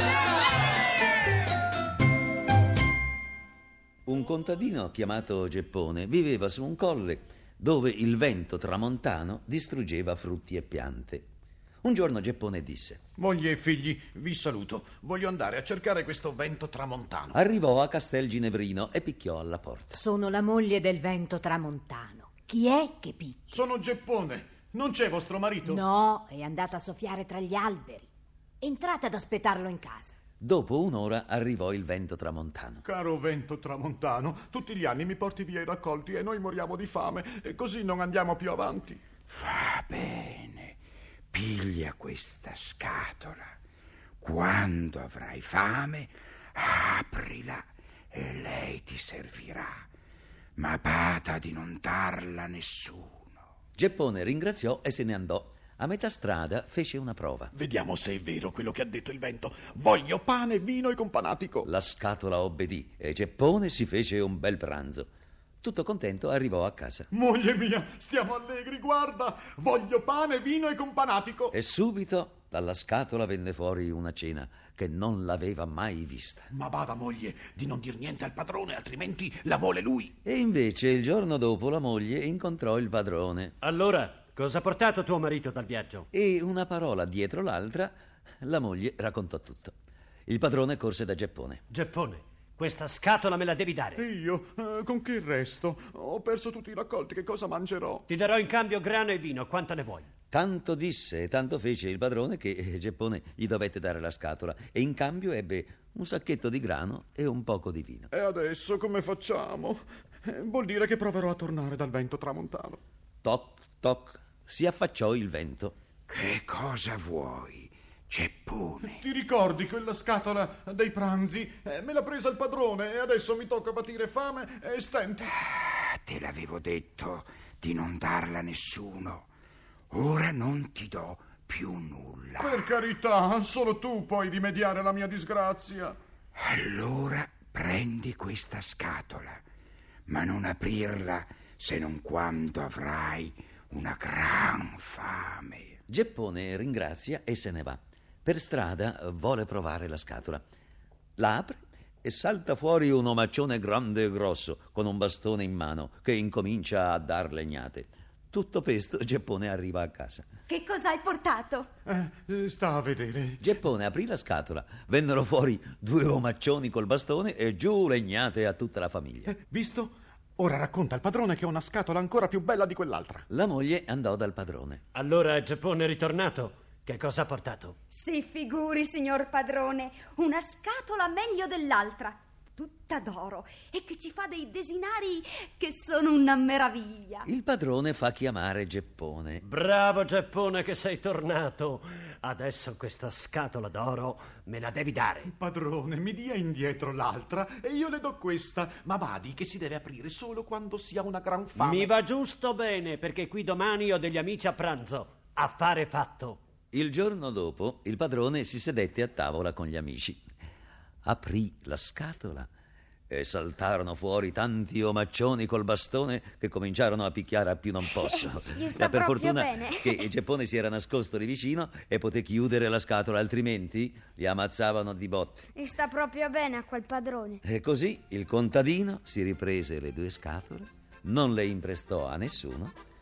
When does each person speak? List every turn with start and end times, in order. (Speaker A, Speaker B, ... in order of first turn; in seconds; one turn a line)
Speaker A: 4.0-11.3
Speaker A: 11.8-13.0
Speaker B: 13.2-17.4
Speaker A: 17.3-20.0
Speaker C: 19.9-23.6
Speaker B: 23.5-25.8
Speaker C: 25.6-28.1
Speaker C: 28.6-30.1
Speaker A: 30.4-32.8
Speaker B: 32.8-39.0
Speaker D: 39.3-40.8
Speaker D: 41.3-43.6
Speaker D: 44.2-49.9
Speaker D: 50.6-53.3
Speaker A: 53.8-57.5
Speaker B: 57.5-61.7
Speaker A: 61.6-65.1
Speaker A: 65.6-67.1
Speaker B: 67.1-71.5
Speaker A: 71.5-76.5
Speaker B: 76.5-80.1
Speaker A: 80.2-83.5
Speaker E: 83.6-86.1
Speaker A: 86.1-89.7
Speaker A: 90.3-91.6
Speaker E: 91.7-94.0
Speaker B: 94.0-98.0
Speaker E: 98.1-100.1
Speaker A: 100.3-108.1
Speaker B: 108.1-112.8
Speaker A: 113.2-115.7
Speaker D: 116.1-119.0
Speaker B: 118.8-125.3
Speaker D: 125.3-129.3
Speaker D: 129.9-132.7
Speaker B: 132.4-135.9
Speaker D: 136.3-139.4
Speaker D: 140.1-145.8
Speaker A: 145.9-150.4
Speaker A: 151.2-160.2
Speaker F: 160.5-161.7
Speaker B: 161.8-163.4
Speaker A: 163.4-169.3
Speaker B: 169.3-173.2
Speaker A: 173.3-174.8
Speaker E: 174.9-177.8
Speaker F: 177.9-187.3
Speaker A: 187.2-189.4
Speaker E: 189.4-195.3
Speaker B: 195.3-201.9
Speaker E: 201.6-206.4
Speaker A: 206.7-210.2
Speaker A: 211.0-212.5
Speaker A: 213.1-225.5
Speaker F: 217.9-220.1
Speaker F: 225.5-227.4
Speaker A: 227.4-232.7